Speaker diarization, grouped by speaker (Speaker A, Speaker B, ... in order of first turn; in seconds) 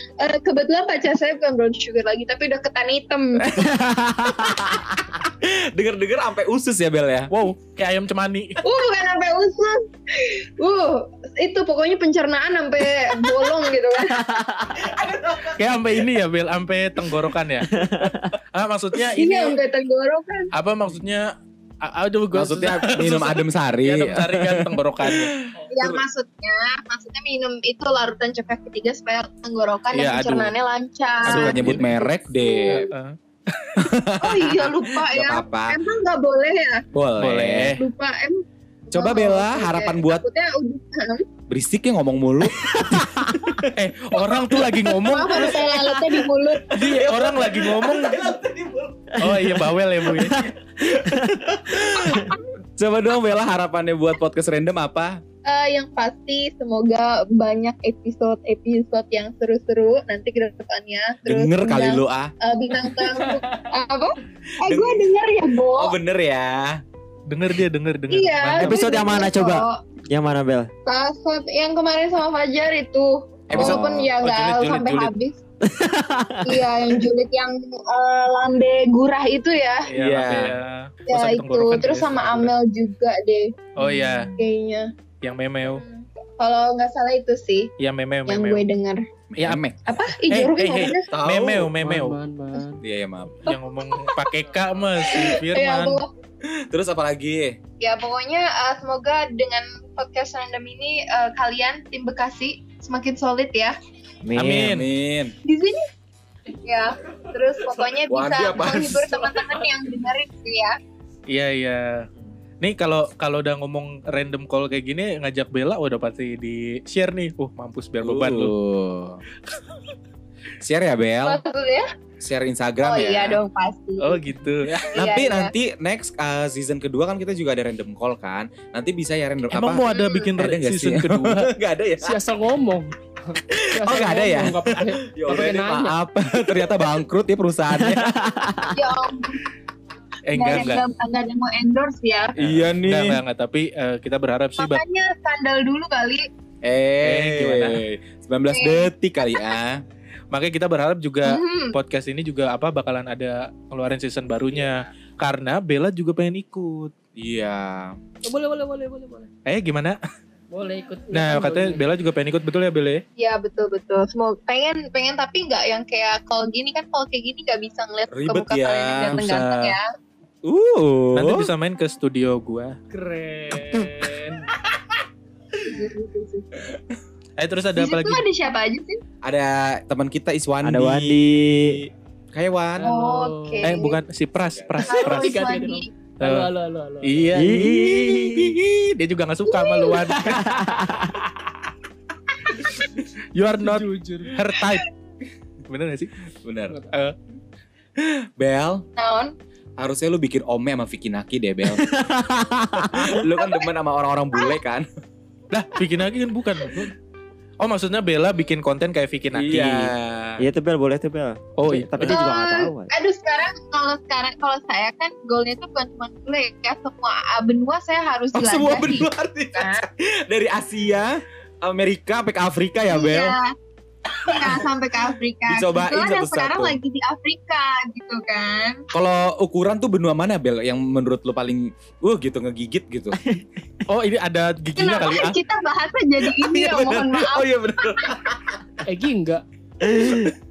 Speaker A: 0.2-3.5, 8.6-14.2, 19.1-20.5, 25.7-32.8, 34.2-36.8, 37.8-41.2, 45.1-46.7, 55.5-66.0, 68.1-69.8, 70.9-75.3, 76.5-79.9, 81.1-83.5, 84.3-84.9, 85.7-87.7, 88.3-89.0, 89.9-91.1, 95.1-96.1, 97.8-103.8, 105.5-105.8, 106.5-110.8, 121.3-121.9, 122.8-124.2, 124.9-125.5, 129.9-130.3, 138.7-139.4, 140.3-142.3, 144.6-146.3, 148.5-148.9, 151.2-151.8, 163.2-169.8, 175.6-176.5, 177.8-179.0, 182.8-184.0, 184.9-185.9, 189.5-190.0, 199.0-199.3, 212.0-219.8, 222.9-223.5, 224.3-228.8, 234.8-238.2
Speaker B: 3.5-7.3, 14.8-15.7, 22.3-25.3, 31.2-32.9, 33.8-35.8, 36.9-37.8, 38.9-40.2, 41.5-43.2, 46.8-49.1, 51.1-55.2, 61.3-62.3, 64.6-65.1, 65.6-66.8, 73.5-74.1, 80.0-80.6, 83.8-84.3, 89.3-89.8, 91.1-91.7, 92.8-93.4, 96.7-97.6, 104.5-105.3, 108.0-109.1, 118.0-119.2, 120.6-121.4, 122.2-123.4, 124.8-132.2, 133.5-138.2, 142.4-143.2, 146.6-149.8, 154.5-154.9, 157.2-158.0, 168.1-169.2, 170.4-171.5, 179.2-181.8, 182.3-182.9, 184.5-184.9, 196.4-196.8, 198.0-198.9, 199.8-201.8, 202.8-204.9, 209.3-210.4, 218.3-223.3, 224.2-224.7, 225.5-226.8, 228.9-233.2, 236.4-238.5
Speaker C: 7.3-8.6, 15.6-19.6, 20.5-21.3, 21.8-25.4, 29.9-30.5, 31.2-31.9, 32.7-33.2, 37.2-37.8, 43.8-45.5, 46.7-48.3, 49.2-50.5, 67.3-68.8, 73.5-75.1, 79.9-82.5, 83.8-84.3, 85.2-85.8, 87.8-88.7, 90.3-92.2, 93.5-96.0, 104.4-104.9, 111.3-112.1, 112.6-118.5, 124.0-124.9, 129.5-131.5, 140.3-140.8, 142.4-144.8, 147.0-147.8, 150.3-156.9, 159.5-160.0, 161.1-163.0, 169.1-169.8, 171.2-174.3, 177.4-178.2, 183.6-185.4, 186.2-186.5, 187.0-191.1, 193.3-194.9, 195.7-196.2, 205.5-206.9, 207.6-209.9, 211.6-212.1, 233.9-235.4
Speaker D: 14.2-14.5, 17.7-18.3, 50.1-51.3, 68.6-70.7, 75.6-76.6, 104.2-104.7, 137.8-138.7, 180.6-181.8, 187.3-188.6, 201.8-203.2, 210.4-212.9, 239.8-240.3
Speaker E: 91.8-92.8, 132.0-135.9, 158.2-159.3, 160.5-161.9, 172.9-173.5, 182.8-183.8, 184.9-187.3, 193.8-194.3, 238.8-239.4